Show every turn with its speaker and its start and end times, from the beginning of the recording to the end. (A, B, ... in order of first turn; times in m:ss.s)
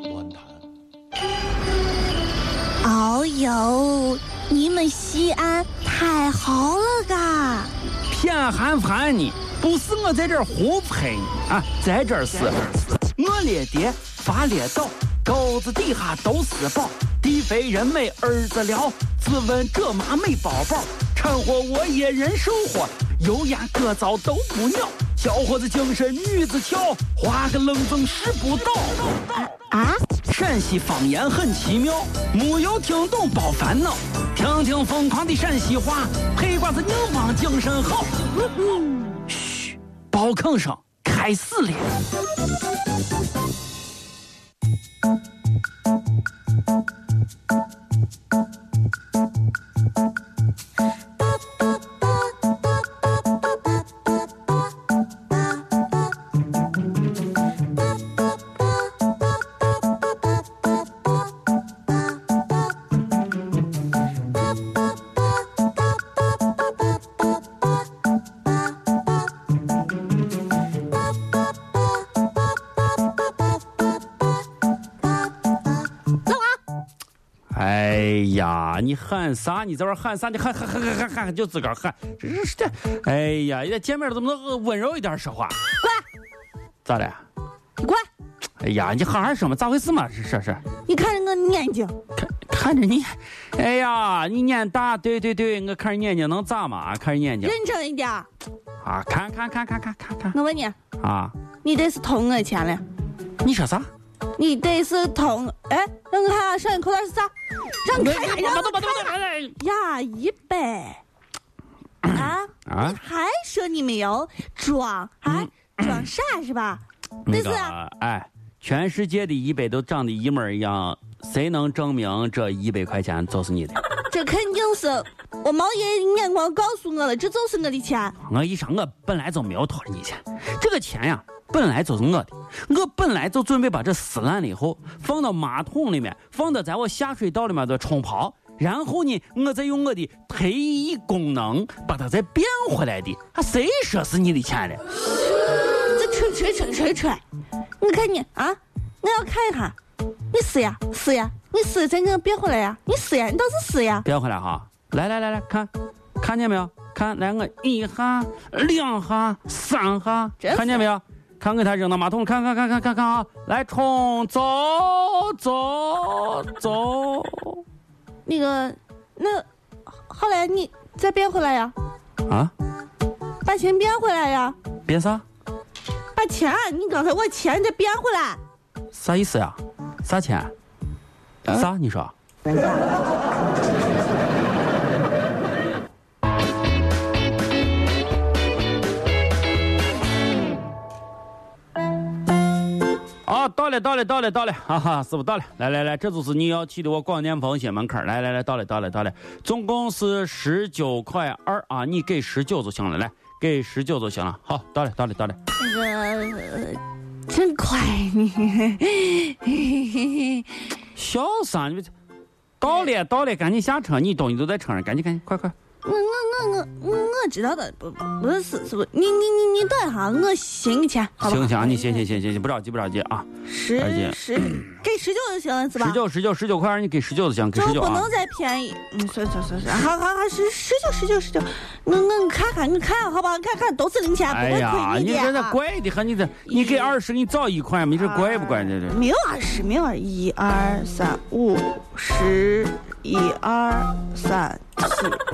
0:02.8-0:07.7 A
0:08.1-0:29.5 B
0:29.3-0:30.0 A
0:30.2-0:38.5 B
0:39.3-0:41.9 B
1:16.3-1:16.6 A
1:17.5-1:25.6 B
1:26.8-1:27.2 B
1:27.8-1:28.0 A
1:28.6-1:30.6 B
1:30.8-1:32.0 A
1:32.2-1:37.5 B
1:37.4-1:38.3 A
1:38.8-1:40.4 B
1:40.3-1:40.8 A
1:41.0-1:41.3 B
1:41.6-1:42.8 A
1:43.4-1:43.9 B
1:44.4-1:47.3 A
1:47.8-1:51.0 A
1:47.9-1:49.6 B
1:52.0-1:57.7 A
1:52.1-1:53.0 B
1:55.2-1:56.0 B
1:57.2-2:03.8 B
2:04.1-2:08.1 A
2:08.2-2:24.8 B
2:25.9-2:27.2 A
2:27.8-2:29.8 A
2:30.3-2:34.0 A
2:34.0-2:47.6 B
2:40.4-2:40.8 A
2:48.2-2:49.5 A
2:50.1-2:51.7 A
2:52.3-2:52.5 B
2:53.4-2:54.6 A
2:54.8-2:55.2 B
2:56.1-2:58.4 A
2:58.9-3:00.5 B
3:01.4-3:02.1 B
3:13.2-3:25.4 B
3:25.6-3:30.4 A
3:30.9-3:31.9 B
3:32.6-3:35.5 B
3:35.8-3:42.0 A
3:41.2-3:44.7 B
3:43.4-3:46.0 A
3:45.8-3:48.1 B
3:47.5-3:55.6 A
3:54.3-3:59.0 B
3:56.5-3:57.0 A
3:58.0-4:05.2 A